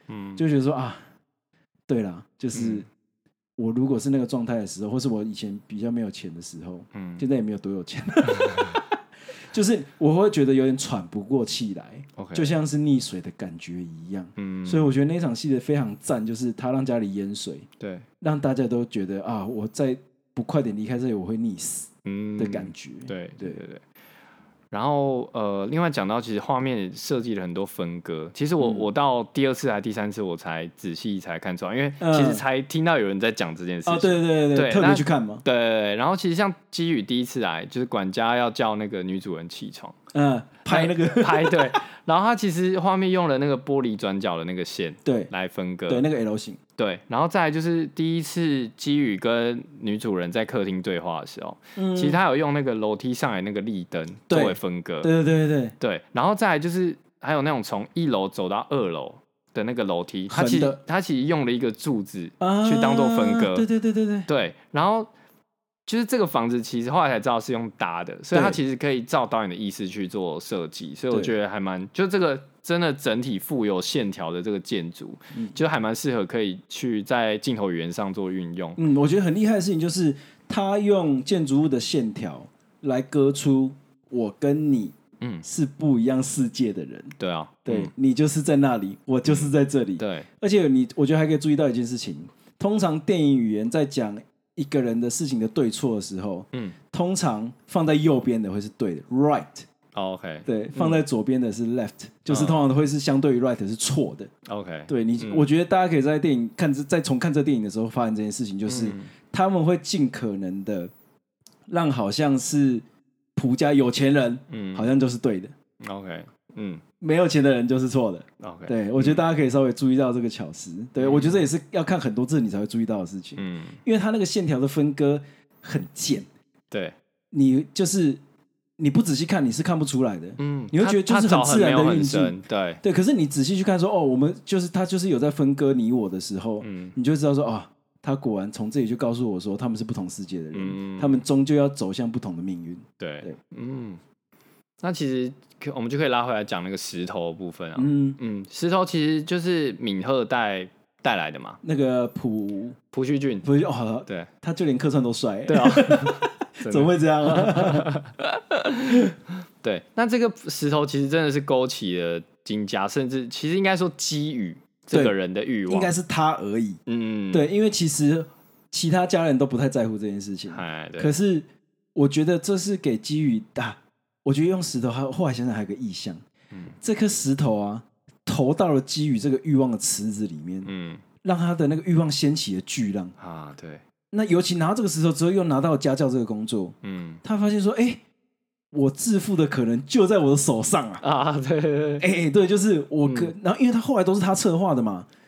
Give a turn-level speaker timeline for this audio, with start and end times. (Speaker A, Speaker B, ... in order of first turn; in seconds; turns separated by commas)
Speaker A: 0.1-0.4, Speaker B: 0.4-1.0, Speaker B: 1.9-2.9, Speaker A: 2.5-2.9, Speaker B: 3.6-9.0, Speaker A: 6.9-7.3, Speaker A: 8.3-8.8, Speaker B: 9.5-17.7, Speaker A: 12.2-12.6, Speaker A: 14.4-14.9, Speaker A: 17.8-18.1, Speaker B: 18.2-23.6, Speaker A: 22.1-23.8, Speaker A: 24.7-40.0, Speaker B: 28.6-28.9, Speaker B: 32.0-32.4, Speaker B: 33.9-35.4, Speaker B: 40.1-41.8, Speaker A: 40.7-46.0, Speaker B: 45.0-45.3, Speaker B: 45.9-46.6, Speaker A: 46.8-55.1, Speaker B: 51.8-52.2, Speaker B: 54.3-55.8, Speaker A: 55.8-63.7, Speaker B: 60.3-60.8, Speaker B: 62.4-64.3, Speaker A: 64.3-65.1, Speaker A: 65.9-78.8, Speaker B: 68.3-68.6, Speaker B: 78.8-87.2, Speaker A: 87.2-87.9, Speaker B: 87.7-99.7, Speaker A: 89.3-90.3, Speaker A: 100.0-101.0, Speaker B: 100.5-104.3, Speaker A: 102.3-102.6, Speaker A: 104.5-105.5, Speaker B: 104.9-110.9, Speaker A: 108.7-109.1, Speaker B: 111.7-112.8, Speaker B: 113.4-115.5, Speaker A: 114.5-114.9, Speaker A: 115.8-116.8, Speaker B: 117.0-126.3, Speaker A: 118.4-119.2, Speaker A: 121.0-121.5, Speaker A: 123.4-123.8, Speaker A: 126.7-127.0, Speaker B: 127.3-128.2, Speaker B: 128.8-143.4, Speaker A: 130.4-132.8, Speaker A: 136.6-137.0, Speaker A: 140.5-141.2, Speaker A: 143.0-144.0, Speaker A: 144.8-151.6, Speaker B: 147.8-148.2, Speaker B: 151.6-152.8, Speaker A: 152.9-153.5, Speaker B: 153.4-157.9, Speaker A: 155.5-165.9, Speaker B: 165.7-166.8, Speaker A: 166.9-167.5, Speaker B: 167.3-176.2, Speaker A: 170.5-171.2, Speaker B: 176.8-180.7, Speaker A: 180.7-181.0, Speaker B: 181.2-183.2, Speaker A: 183.2-183.8, Speaker B: 184.1-188.0, Speaker A: 186.8-187.2, Speaker B: 188.7-191.0, Speaker A: 191.0-192.1, Speaker B: 192.0-195.1, Speaker A: 193.1-193.3